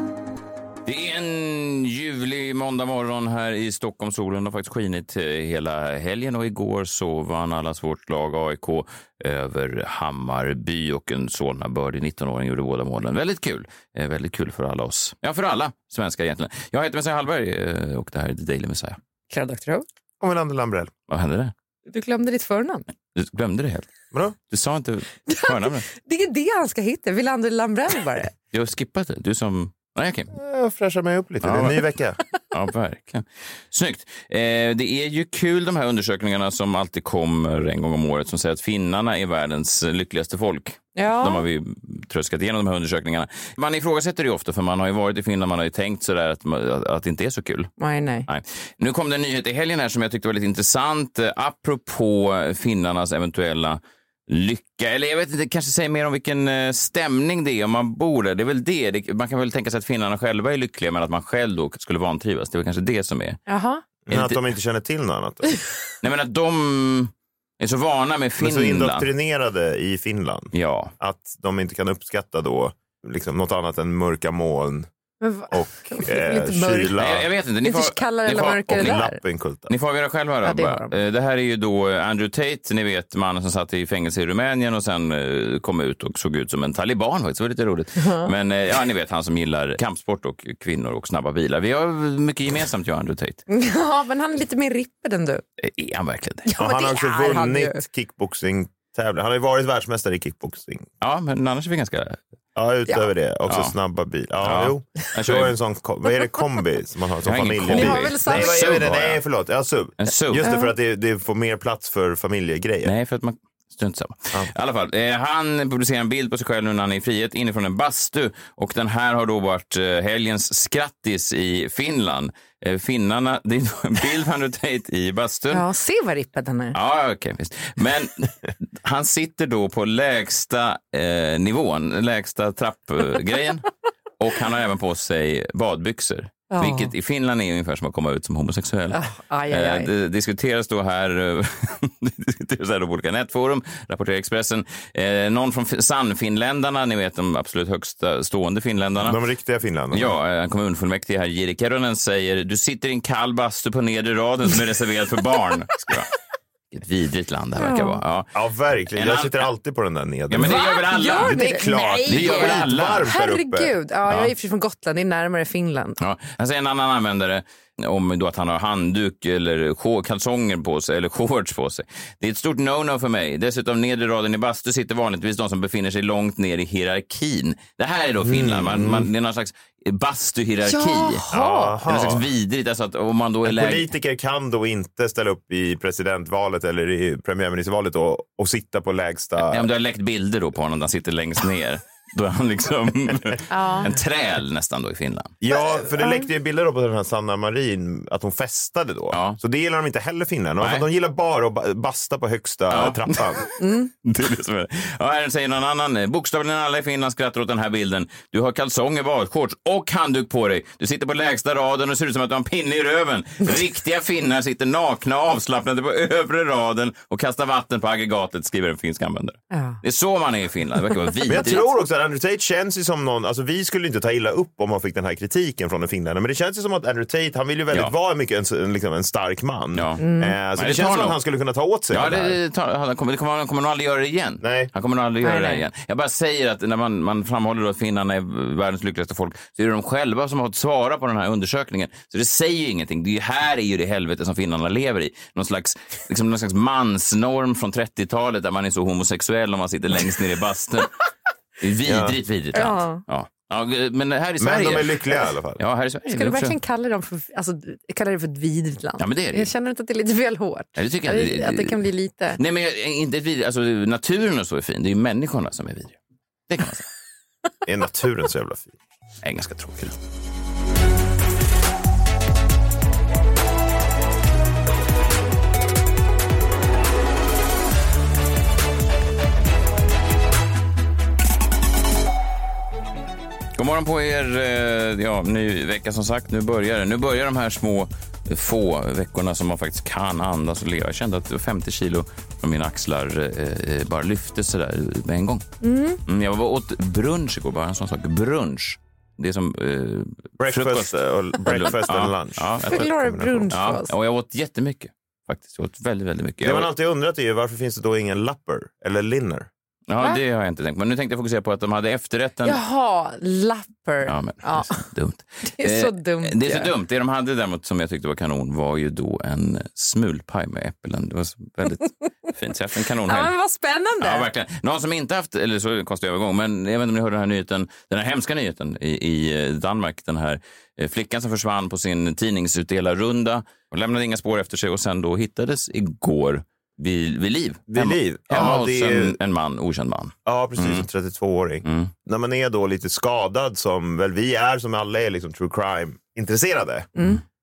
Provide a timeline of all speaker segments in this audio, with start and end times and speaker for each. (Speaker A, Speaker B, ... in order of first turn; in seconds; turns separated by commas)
Speaker A: 0.9-19.0, Speaker B: 19.3-19.9, Speaker C: 20.2-20.9, Speaker A: 21.1-21.5, Speaker B: 21.9-22.9, Speaker A: 23.1-23.9, Speaker A: 24.5-25.9, Speaker B: 25.3-28.3, Speaker A: 28.5-30.3, Speaker C: 30.3-32.2, Speaker A: 31.4-31.8, Speaker A: 32.5-47.7, Speaker B: 41.0-41.5, Speaker B: 47.8-48.3, Speaker A: 48.3-63.4, Speaker B: 63.5-63.8, Speaker C: 64.1-65.5, Speaker A: 64.1-64.4, Speaker A: 66.0-69.1, Speaker C: 68.4-74.9, Speaker A: 70.5-70.9, Speaker B: 75.2-77.0, Speaker C: 75.5-77.3, Speaker A: 77.0-79.0, Speaker B: 77.6-79.2, Speaker C: 78.7-79.7, Speaker A: 79.7-93.4, Speaker B: 80.5-81.0, Speaker B: 88.0-88.3, Speaker B: 93.5-95.4, Speaker A: 95.6-96.5, Speaker B: 96.5-97.8, Speaker C: 96.6-100.9, Speaker A: 101.0-102.2, Speaker C: 102.5-112.9, Speaker A: 103.5-103.8, Speaker A: 104.4-105.5, Speaker A: 107.3-109.2, Speaker B: 107.7-108.6, Speaker A: 110.0-110.5, Speaker B: 110.4-110.7, Speaker A: 112.8-125.6, Speaker B: 125.5-126.8, Speaker A: 126.7-133.7, Speaker A: 134.2-149.2, Speaker B: 136.5-136.9, Speaker B: 138.9-139.9, Speaker C: 149.0-150.2, Speaker A: 149.9-156.1, Speaker A: 156.7-158.3, Speaker B: 157.6-158.0, Speaker C: 158.3-163.7, Speaker A: 158.9-159.5, Speaker A: 160.3-161.5, Speaker B: 160.4-166.0, Speaker A: 162.1-163.1, Speaker A: 164.1-164.3, Speaker A: 166.0-181.2, Speaker C: 178.2-179.1, Speaker B: 180.7-181.8, Speaker C: 181.3-182.3, Speaker A: 181.9-183.9, Speaker C: 183.4-189.7, Speaker A: 189.4-195.3, Speaker B: 193.5-193.9, Speaker C: 195.4-203.4, Speaker B: 196.0-196.3, Speaker A: 199.1-199.4, Speaker A: 202.7-203.2, Speaker B: 203.6-203.9, Speaker A: 204.0-221.6, Speaker B: 219.5-219.8, Speaker C: 221.3-232.4, Speaker A: 229.8-230.0, Speaker B: 230.0-230.4, Speaker A: 230.6-231.2, Speaker A: 231.9-250.9, Speaker C: 234.4-234.7, Speaker B: 235.2-235.6, Speaker A: 251.6-255.0, Speaker C: 251.8-252.2, Speaker B: 252.5-253.0, Speaker C: 254.4-255.6, Speaker A: 255.6-256.6, Speaker B: 256.1-262.4, Speaker A: 259.0-259.5, Speaker A: 260.8-261.8, Speaker A: 262.4-266.0, Speaker A: 266.5-266.9, Speaker C: 267.7-268.8, Speaker A: 269.2-269.9, Speaker A: 283.6-295.5, Speaker B: 295.6-296.0, Speaker A: 296.1-302.9, Speaker C: 300.4-303.5, Speaker B: 302.7-303.9, Speaker A: 303.5-306.7, Speaker C: 306.4-309.5, Speaker A: 309.9-312.6, Speaker B: 312.4-314.8, Speaker A: 314.1-323.3, Speaker B: 315.5-316.7, Speaker B: 323.1-324.3, Speaker A: 324.0-340.9, Speaker C: 337.7-339.2, Speaker C: 340.3-346.9, Speaker A: 341.6-341.9